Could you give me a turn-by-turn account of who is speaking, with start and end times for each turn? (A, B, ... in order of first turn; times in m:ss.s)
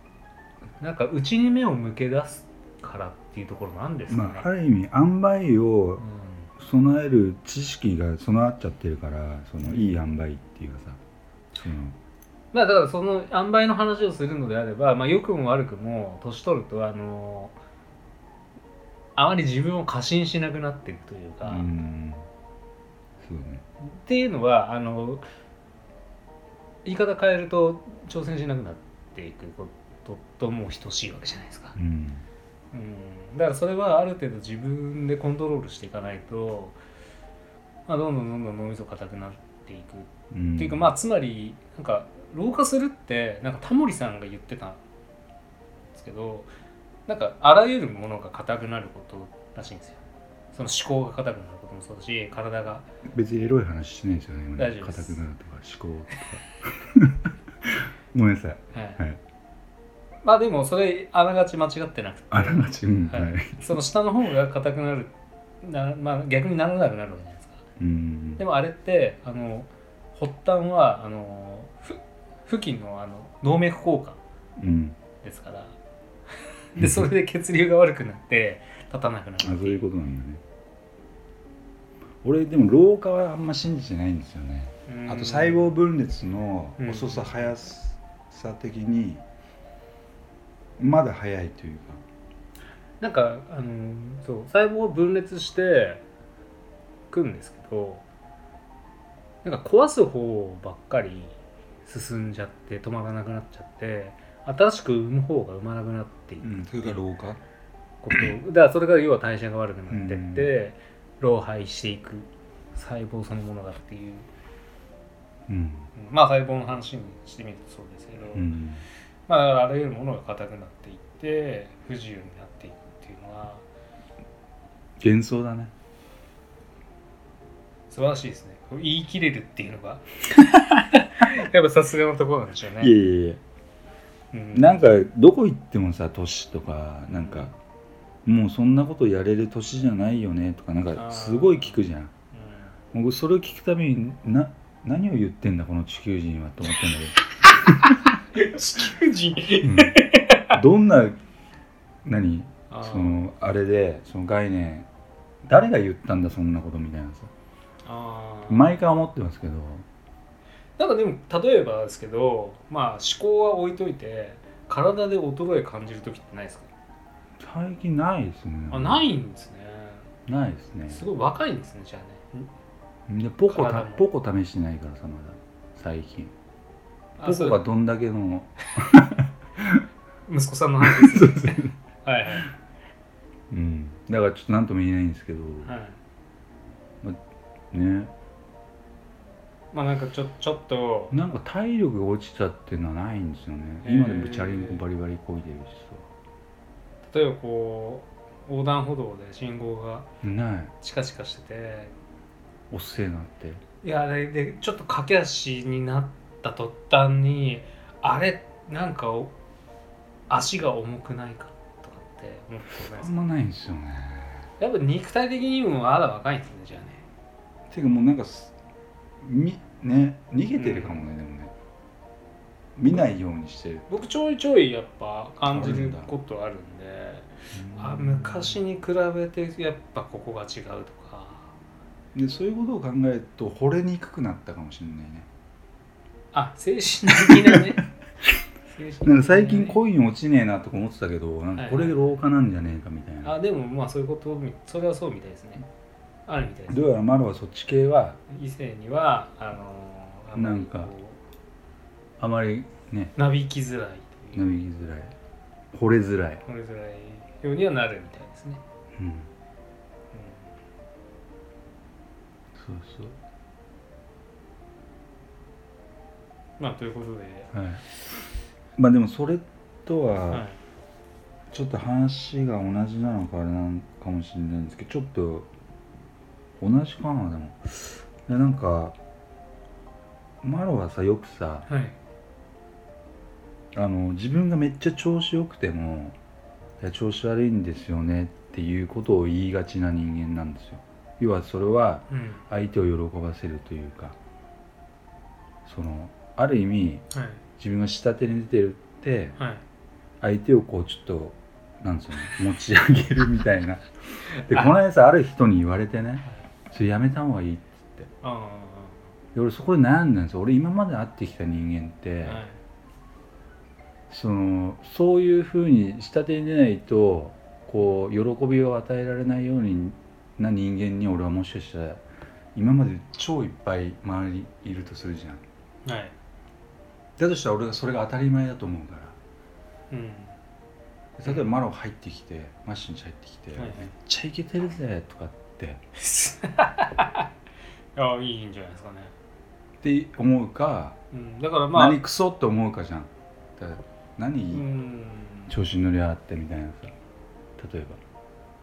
0:00.8-0:04.5 A
0:04.1-0:06.0 B
0:06.0-0:06.5 A
0:06.6-0:11.0 B
0:09.6-0:09.9 A
0:11.5-0:12.0 B
0:12.5-0:17.6 A
0:19.2-0:21.7 A
0:21.4-0:22.3 B
0:23.2-0:23.6 B
0:23.8-0:25.2 A
0:26.8-0:31.8 A
0:31.8-0:32.2 B
0:32.7-0:36.8 A
0:37.9-0:44.8 A
0:40.3-0:40.9 B
0:45.9-0:46.5 A
0:47.1-0:50.0 A
0:50.5-0:52.9 A
0:53.1-0:59.2 B
0:54.6-0:55.2 A
0:58.7-0:59.0 A
1:00.2-1:07.6 A
1:02.3-1:03.8 B
1:07.8-1:08.4 B
1:08.4-1:14.2 A
1:14.6-1:15.0 B
1:15.2-1:15.8 A
1:16.7-1:19.8 A
1:16.8-1:17.1 B
1:19.4-1:20.4 B
1:22.2-1:29.2 B
1:24.9-1:25.7 A
1:26.8-1:27.5 A
1:30.8-1:32.0 B
1:33.0-1:36.0 A
1:37.1-1:38.0 A
1:39.4-1:47.0 A
1:46.4-1:47.4 B
1:48.0-1:54.3 A
1:49.9-1:50.5 B
1:55.5-1:55.9 B
1:56.0-1:58.5 A
1:58.3-1:58.8 B
1:59.3-2:03.6 A
2:05.0-2:05.7 B
2:07.9-2:12.9 A
2:12.8-2:13.4 B
2:14.3-2:14.9 A
2:14.5-2:17.5 B
2:17.1-2:17.5 A
2:18.2-2:22.1 B
2:20.9-2:21.8 A
2:22.3-2:22.7 A
2:22.9-2:28.0 B
2:27.8-2:30.6 A
2:29.6-2:31.2 B
2:32.0-2:34.9 B
2:32.7-2:33.2 A
2:35.4-2:37.3 B
2:37.8-2:38.7 A
2:38.5-2:39.9 B
2:40.8-2:46.7 A
2:47.4-2:49.0 B
2:48.7-2:50.1 A
2:50.2-2:51.1 B
2:50.9-2:52.5 A
2:53.1-2:56.3 B
2:53.5-2:54.0 A
2:57.2-2:57.6 A
2:57.2-2:59.8 B
3:00.3-3:02.5 A
3:00.8-3:01.7 B
3:03.5-3:05.7 B
3:05.6-3:06.0 A
3:07.7-3:08.1 B
3:09.7-3:11.2 A
3:11.1-3:16.1 B
3:13.8-3:14.8 A
3:17.1-3:20.1 A
3:20.2-3:20.7 B
3:20.8-3:21.9 A
3:22.7-3:23.6 B
3:23.8-3:29.4 A
3:30.3-3:33.2 A
3:32.8-3:34.5 B
3:34.6-3:37.0 A
3:37.7-3:38.5 B
3:39.2-3:41.5 B
3:40.6-3:41.0 A
3:42.8-3:43.9 B
3:43.9-3:51.5 A
3:45.5-3:46.1 B
3:47.5-3:48.6 B
3:52.1-3:55.3 B
3:56.3-3:57.8 A
3:57.2-3:57.7 B
3:58.7-3:59.8 A
3:59.0-4:03.3 B
4:01.5-4:02.2 A
4:03.2-4:05.6 A
4:06.2-4:06.9 A
4:06.7-4:08.2 B
4:08.3-4:11.2 A
4:10.4-4:10.9 B
4:12.2-4:13.1 B
4:13.2-4:14.6 A
4:14.3-4:15.1 B
4:15.7-4:16.4 B
4:16.4-4:18.6 A
4:18.9-4:19.3 B
4:20.1-4:20.5 A
4:22.5-4:23.2 B
4:26.6-4:27.5 A
4:27.5-4:27.8 B
4:28.8-4:30.4 B
4:30.3-4:30.6 A
4:31.5-4:35.5 B
4:36.6-4:39.0 B
4:40.4-4:41.7 B
4:41.7-4:41.9 A
4:43.7-4:46.2 B
4:46.8-4:54.2 B
4:52.1-4:52.4 A
4:55.6-4:57.0 B
4:57.1-4:57.4 A
4:57.6-4:59.4 B
4:59.4-4:59.6 A
5:00.2-5:08.1 B
5:04.3-5:04.8 A
5:08.2-5:09.0 A
5:09.3-5:12.4 B
5:12.2-5:12.6 A
5:14.1-5:22.0 B
5:22.5-5:25.4 B
5:25.8-5:26.1 A
5:27.2-5:29.2 B
5:29.9-5:30.4 A
5:31.2-5:35.8 B
5:31.2-5:31.5 A
5:33.6-5:33.9 A
5:36.0-5:37.3 A
5:38.0-5:39.1 A
5:39.8-5:41.0 B
5:41.1-5:42.0 A
5:41.7-5:44.6 B
5:44.5-5:45.5 A
5:45.5-5:46.9 B
5:47.6-5:48.0 B